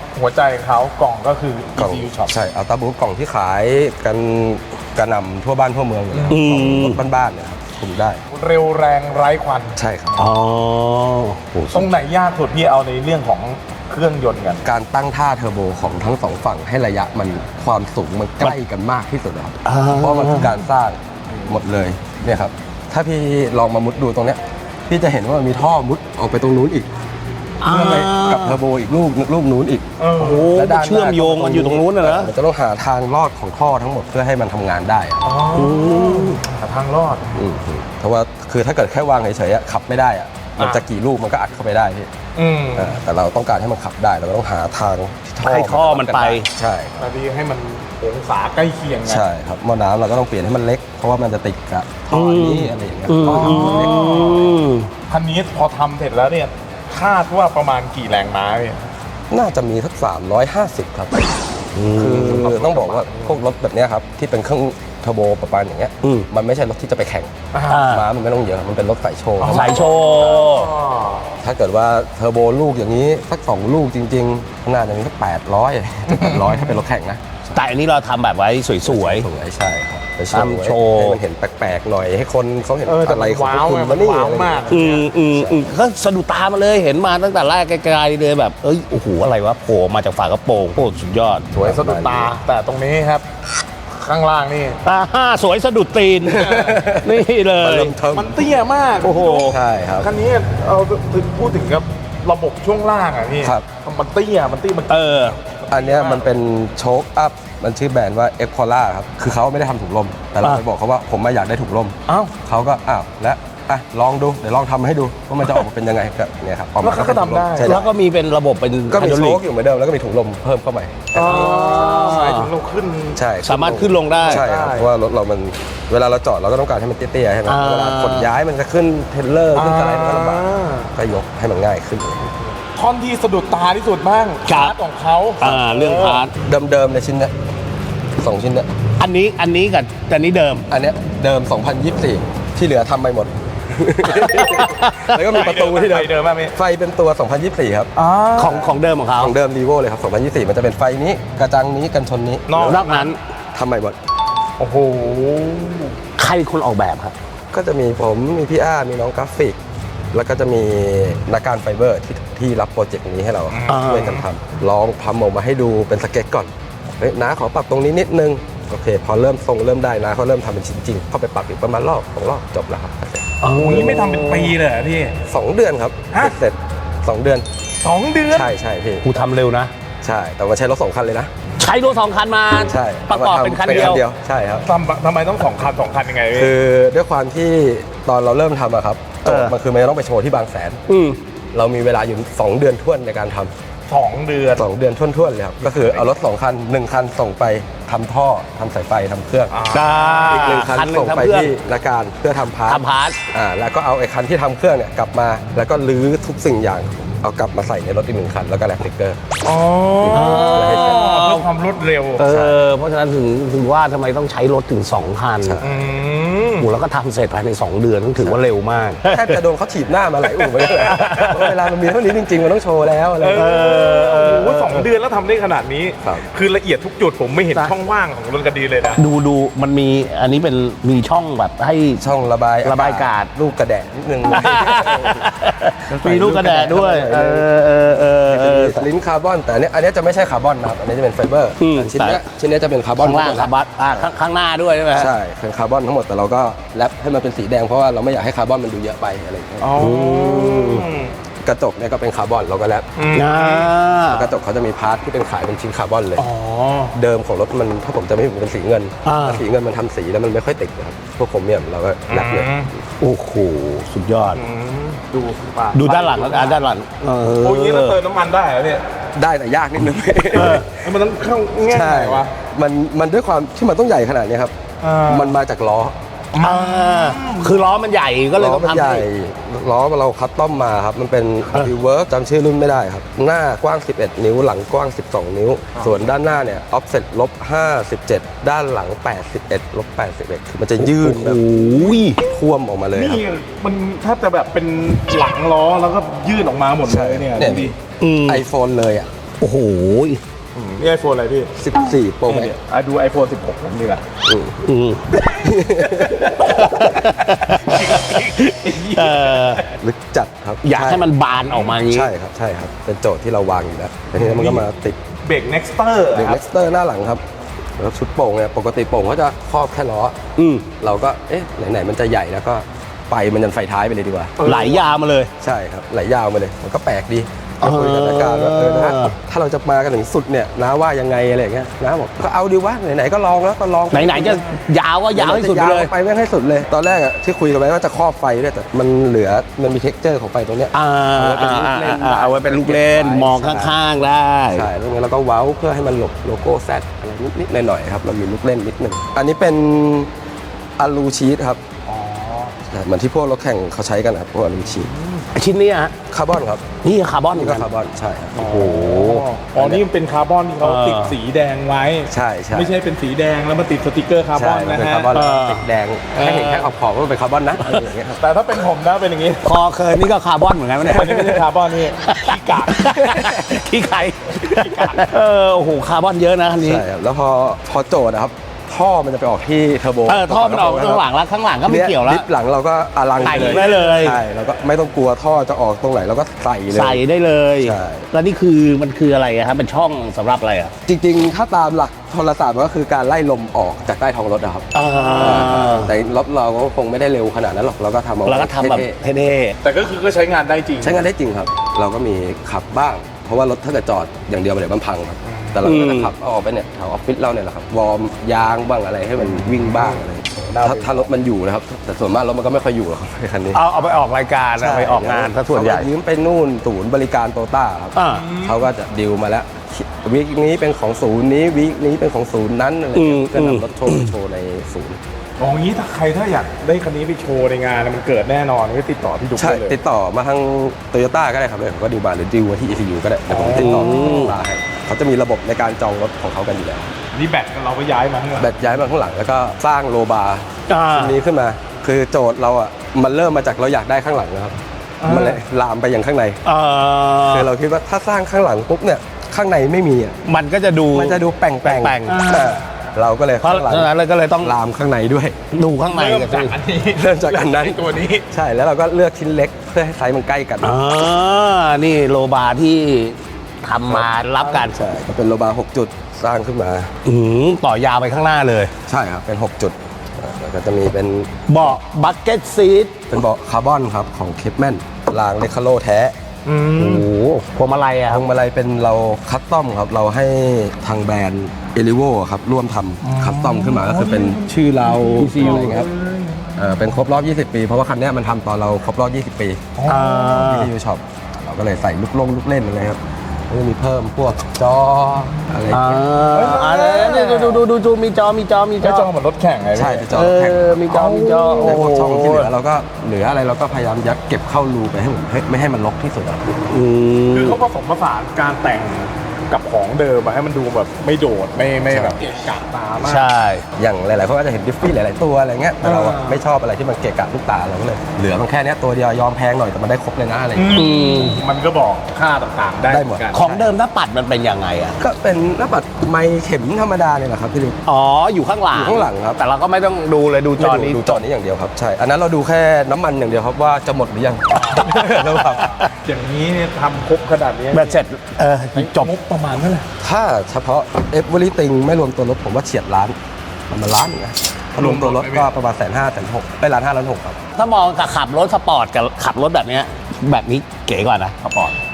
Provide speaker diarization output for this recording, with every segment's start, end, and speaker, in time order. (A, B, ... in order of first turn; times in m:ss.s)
0:00.2-0:02.4 A
0:01.8-0:08.2 B
0:06.1-0:06.4 A
0:06.3-0:07.0 C
0:08.3-0:09.8 A
0:09.8-0:10.2 B
0:10.2-0:11.6 C
0:11.7-0:14.6 A
0:14.6-0:26.9 B
0:19.6-0:20.5 C
0:27.6-0:28.6 C
0:27.6-0:29.9 B
0:30.0-0:30.5 A
0:30.2-0:32.3 C
0:30.5-0:35.2 B
0:35.2-0:37.3 A
0:35.5-0:36.4 C
0:37.4-0:42.1 B
0:40.6-0:40.8 A
0:42.4-0:43.0 A
0:42.7-0:47.0 B
0:45.4-0:46.5 C
0:47.0-0:49.2 A
0:49.1-0:54.2 B
0:52.1-0:54.9 C
0:53.2-0:58.9 A
0:59.3-1:01.3 B
1:01.8-1:02.5 C
1:01.9-1:07.3 B
1:02.3-1:03.4 A
1:07.5-1:07.8 A
1:07.6-1:08.1 C
1:07.8-1:10.0 B
1:09.4-1:11.2 A
1:09.5-1:10.7 C
1:11.4-1:17.6 B
1:16.1-1:16.6 A
1:17.5-1:19.3 C
1:18.9-1:25.7 B
1:20.3-1:21.2 C
1:22.9-1:25.1 A
1:24.7-1:31.5 C
1:31.5-1:32.3 B
1:31.5-1:33.2 A
1:33.9-1:34.8 A
1:34.8-1:38.0 C
1:36.2-1:38.4 B
1:36.3-1:36.8 A
1:38.1-1:46.3 A
1:39.0-1:39.6 C
1:39.5-1:40.1 B
1:44.9-1:45.4 C
1:45.7-1:57.9 B
1:52.1-1:52.3 A
1:56.8-1:57.8 A
1:57.6-1:59.4 C
1:58.9-2:01.5 B
2:01.1-2:03.2 A
2:01.2-2:02.5 C
2:03.2-2:12.3 B
2:03.4-2:04.4 C
2:04.2-2:04.9 A
2:07.5-2:08.3 C
2:09.5-2:11.0 A
2:12.8-2:16.2 A
2:14.5-2:14.8 C
2:15.4-2:16.3 C
2:16.4-2:17.3 B
2:18.2-2:18.7 B
2:19.0-2:20.6 C
2:20.7-2:27.9 B
2:24.1-2:25.2 C
2:25.3-2:26.5 A
2:28.0-2:28.7 A
2:28.4-2:29.3 C
2:29.2-2:32.8 B
2:32.5-2:33.1 A
2:32.6-2:33.2 C
2:33.5-2:34.0 B
2:34.6-2:36.0 A
2:36.2-2:37.1 C
2:37.5-2:39.6 B
2:40.1-2:53.3 B
2:43.5-2:44.2 A
2:43.7-2:44.2 C
2:53.4-2:54.5 C
2:53.5-2:55.2 A
2:55.3-2:57.5 B
2:57.8-2:58.5 A
2:58.3-2:59.1 B
2:59.0-2:59.7 C
3:00.0-3:01.3 B
3:01.6-3:04.0 C
3:02.6-3:04.6 B
3:04.6-3:06.5 A
3:06.3-3:10.8 B
3:09.2-3:09.5 C
3:10.9-3:11.2 C
3:11.5-3:13.5 B
3:13.9-3:14.7 A
3:14.6-3:19.5 B
3:15.6-3:16.1 A
3:19.5-3:20.5 A
3:19.7-3:21.5 C
3:20.3-3:29.2 B
3:22.7-3:23.2 C
3:29.4-3:32.2 A
3:30.0-3:31.0 B
3:30.1-3:31.4 C
3:32.2-3:35.6 C
3:32.2-3:32.6 B
3:35.4-3:35.8 B
3:35.6-3:36.7 A
3:36.6-3:39.4 C
3:39.0-3:43.6 B
3:40.6-3:41.6 C
3:40.8-3:41.4 A
3:43.2-3:49.0 A
3:43.3-3:44.9 C
3:49.0-3:52.0 C
3:52.0-3:55.3 B
3:52.6-3:53.3 C
3:54.3-3:58.9 C
3:55.9-3:57.5 B
3:58.3-4:04.1 B
4:01.6-4:02.2 C
4:03.0-4:05.1 C
4:04.9-4:09.8 B
4:09.6-4:11.1 A
4:09.8-4:10.9 C
4:11.4-4:12.9 B
4:13.0-4:13.7 A
4:13.1-4:14.3 C
4:14.1-4:16.3 B
4:16.2-4:17.0 A
4:16.9-4:22.5 B
4:19.0-4:19.4 C
4:22.1-4:22.7 A
4:23.0-4:24.4 C
4:24.3-4:26.6 A
4:25.7-4:28.0 C
4:27.2-4:28.8 A
4:29.1-4:30.8 B
4:30.3-4:30.6 C
4:30.6-4:32.3 A
4:31.6-4:34.5 B
4:34.8-4:35.4 A
4:35.1-4:36.0 B
4:36.3-4:37.5 A
4:36.4-4:39.0 C
4:38.4-4:51.5 B
4:45.8-4:46.0 A
4:50.8-4:52.2 C
4:51.6-4:52.0 A
4:52.2-4:53.2 B
4:53.0-4:57.8 A
4:56.8-4:57.7 B
4:58.0-4:58.5 C
4:58.2-4:59.1 B
4:59.4-5:00.2 C
5:00.5-5:01.5 A
5:01.6-5:02.5 B
5:02.3-5:04.0 A
5:04.2-5:04.6 B
5:04.6-5:05.1 C
5:05.2-5:09.7 A
5:05.3-5:06.5 B
5:06.5-5:09.6 C
5:09.8-5:11.1 B
5:10.6-5:12.1 C
5:11.5-5:11.8 A
5:11.8-5:15.0 B
5:14.2-5:14.7 A
5:15.2-5:16.4 A
5:16.1-5:17.2 B
5:17.8-5:24.4 B
5:20.4-5:20.7 C
5:24.4-5:24.8 A
5:24.4-5:25.3 C
5:25.4-5:34.4 B
5:27.6-5:29.1 C
5:33.9-5:35.9 C
5:35.1-5:43.8 B
5:40.7-5:44.7 C
5:44.5-5:50.1 B
5:50.8-5:51.6 B
5:51.9-5:52.5 A
5:52.7-5:54.9 B
5:54.8-5:55.3 A
5:55.4-5:55.9 C
5:56.1-5:56.8 B
5:56.8-5:57.7 C
5:57.4-5:58.5 B
5:58.4-6:05.2 A
5:58.4-5:59.2 C
5:59.5-5:59.8 B
6:00.6-6:01.2 C
6:02.1-6:02.7 B
6:04.4-6:08.2 B
6:05.1-6:05.6 C
6:06.2-6:06.5 C
6:06.3-6:06.6 A
6:08.1-6:09.5 A
6:09.4-6:16.8 C
6:10.8-6:13.3 A
6:14.3-6:15.1 A
6:16.6-6:21.0 B
6:20.1-6:22.2 C
6:21.6-6:27.0 B
6:23.2-6:24.2 C
6:23.2-6:23.9 A
6:26.7-6:30.7 C
6:27.6-6:28.1 B
6:30.9-6:39.0 B
6:34.7-6:35.9 C
6:35.0-6:35.7 A
6:38.2-6:39.6 C
6:39.6-6:41.1 A
6:40.8-6:53.6 B
6:45.2-6:45.7 A
6:45.6-6:46.1 C
6:49.4-6:51.1 A
6:53.5-6:55.9 C
6:54.6-7:05.0 B
6:58.0-6:58.3 C
6:58.0-6:58.7 A
7:02.9-7:04.1 C
7:05.4-7:09.8 A
7:09.4-7:16.9 B
7:13.3-7:14.3 A
7:13.6-7:14.4 C
7:17.1-7:18.5 A
7:18.4-7:26.4 B
7:20.7-7:21.2 C
7:25.0-7:25.4 A
7:26.4-7:27.5 C
7:27.3-7:30.2 B
7:30.2-7:32.5 C
7:30.9-7:35.4 B
7:32.1-7:32.6 A
7:33.4-7:34.6 C
7:35.5-7:36.5 C
7:35.9-7:38.3 A
7:36.9-7:40.7 B
7:40.6-7:44.8 C
7:43.9-7:46.9 B
7:47.0-7:48.7 C
7:48.9-7:51.8 B
7:51.5-7:53.0 C
7:53.1-7:56.1 B
7:56.4-7:57.1 A
7:56.8-7:58.3 C
7:58.1-8:05.9 B
8:03.0-8:06.7 A
8:05.2-8:05.8 C
8:06.6-8:16.1 B
8:09.8-8:10.4 A
8:09.9-8:10.7 C
8:15.7-8:19.1 C
8:16.3-8:17.6 A
8:18.8-8:20.1 A
8:19.7-8:20.9 B
8:20.1-8:22.5 C
8:20.9-8:22.1 A
8:21.6-8:26.6 B
8:26.7-8:27.6 C
8:27.3-8:33.3 A
8:31.9-8:32.2 B
8:33.0-8:33.6 C
8:33.8-8:40.9 B
8:35.8-8:36.4 A
8:40.6-8:43.4 A
8:40.7-8:41.4 C
8:42.9-8:43.7 B
8:43.3-8:45.0 C
8:45.0-8:47.8 B
8:47.9-8:51.2 C
8:48.7-8:49.4 B
8:50.6-8:55.8 B
8:54.5-8:54.8 A
8:56.0-8:58.0 A
8:57.7-8:59.1 C
8:58.8-8:59.9 A
9:00.0-9:03.2 B
9:03.7-9:07.4 B
9:04.8-9:05.5 A
9:07.6-9:11.4 C
9:11.4-9:11.8 A